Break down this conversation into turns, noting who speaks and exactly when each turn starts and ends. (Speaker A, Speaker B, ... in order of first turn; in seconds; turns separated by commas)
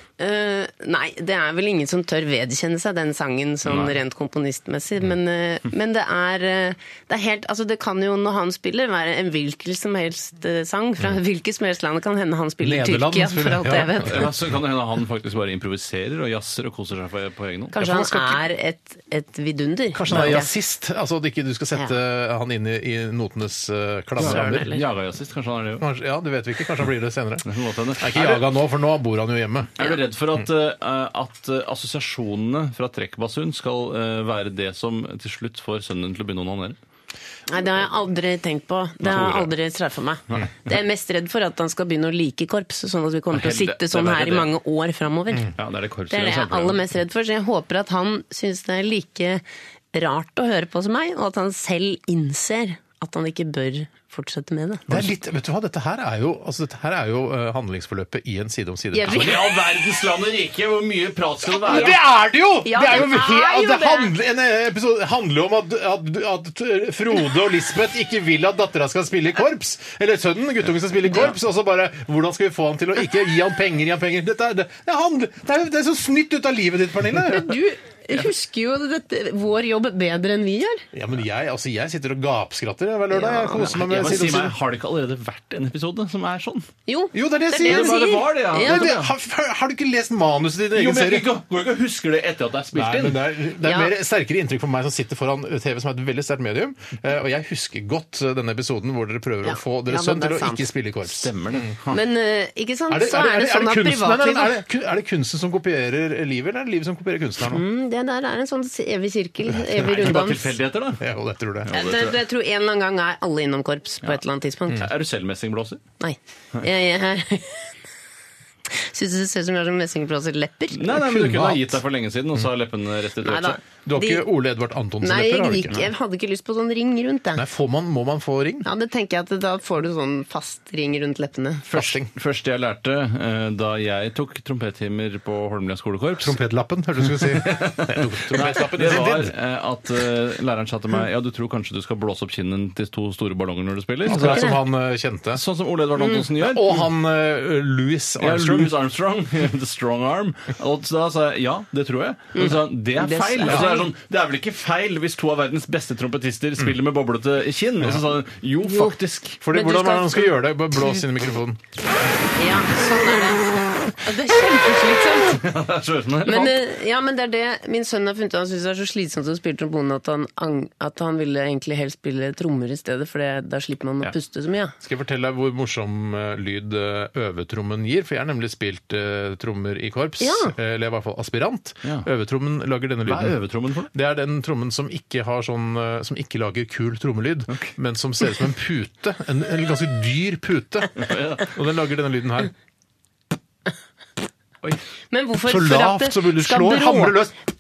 Speaker A: 0.2-14.3, Speaker B: 3.6-3.9, Speaker C: 12.6-14.3, Speaker B: 14.1-17.8, Speaker A: 17.7-20.5, Speaker C: 17.8-18.4, Speaker C: 19.9-24.7, Speaker A: 24.2-24.8, Speaker B: 24.2-25.9, Speaker C: 25.8-27.5, Speaker B: 27.4-28.4, Speaker C: 28.0-29.8, Speaker B: 29.8-36.8, Speaker A: 37.5-45.5, Speaker B: 39.0-39.5, Speaker B: 43.3-44.5, Speaker B: 45.5-46.8, Speaker A: 46.1-55.1, Speaker C: 54.9-59.5, Speaker A: 58.9-59.4, Speaker B: 59.0-62.0, Speaker C: 61.5-77.6, Speaker A: 61.7-62.0, Speaker A: 62.6-64.1, Speaker A: 77.2-80.8, Speaker C: 80.9-84.6, Speaker A: 83.1-83.9, Speaker B: 83.8-86.7, Speaker A: 86.9-88.9, Speaker C: 87.1-91.3, Speaker B: 87.7-89.1, Speaker B: 90.7-93.3, Speaker C: 92.7-101.7, Speaker A: 93.6-93.9, Speaker A: 99.5-100.7, Speaker B: 101.1-102.0, Speaker A: 101.9-104.6, Speaker C: 102.9-107.6, Speaker A: 107.5-110.5, Speaker C: 109.5-110.1, Speaker B: 109.8-111.0, Speaker C: 111.0-111.7, Speaker B: 111.7-112.2, Speaker A: 111.7-114.9, Speaker B: 114.7-115.8, Speaker A: 116.0-117.7, Speaker A: 118.7-120.9, Speaker B: 120.8-123.6, Speaker C: 120.9-121.8, Speaker A: 123.2-124.2, Speaker C: 123.8-125.9, Speaker A: 125.0-127.4, Speaker C: 127.3-128.7, Speaker A: 128.7-131.7, Speaker B: 131.7-136.4, Speaker C: 131.7-132.1, Speaker C: 136.2-139.3, Speaker B: 137.1-144.6, Speaker C: 144.1-145.4, Speaker A: 144.1-144.6, Speaker B: 145.3-146.9, Speaker C: 146.4-148.7, Speaker B: 148.2-159.4, Speaker A: 152.3-153.9, Speaker C: 153.5-153.7, Speaker A: 158.7-158.9, Speaker C: 159.4-161.6, Speaker A: 159.5-160.3, Speaker A: 162.4-165.4, Speaker B: 165.3-166.6, Speaker A: 166.2-174.8, Speaker C: 174.8-183.4, Speaker A: 180.2-180.5, Speaker B: 183.1-183.9, Speaker C: 183.9-192.5, Speaker B: 191.0-191.5, Speaker A: 195.1-197.2, Speaker C: 195.4-197.3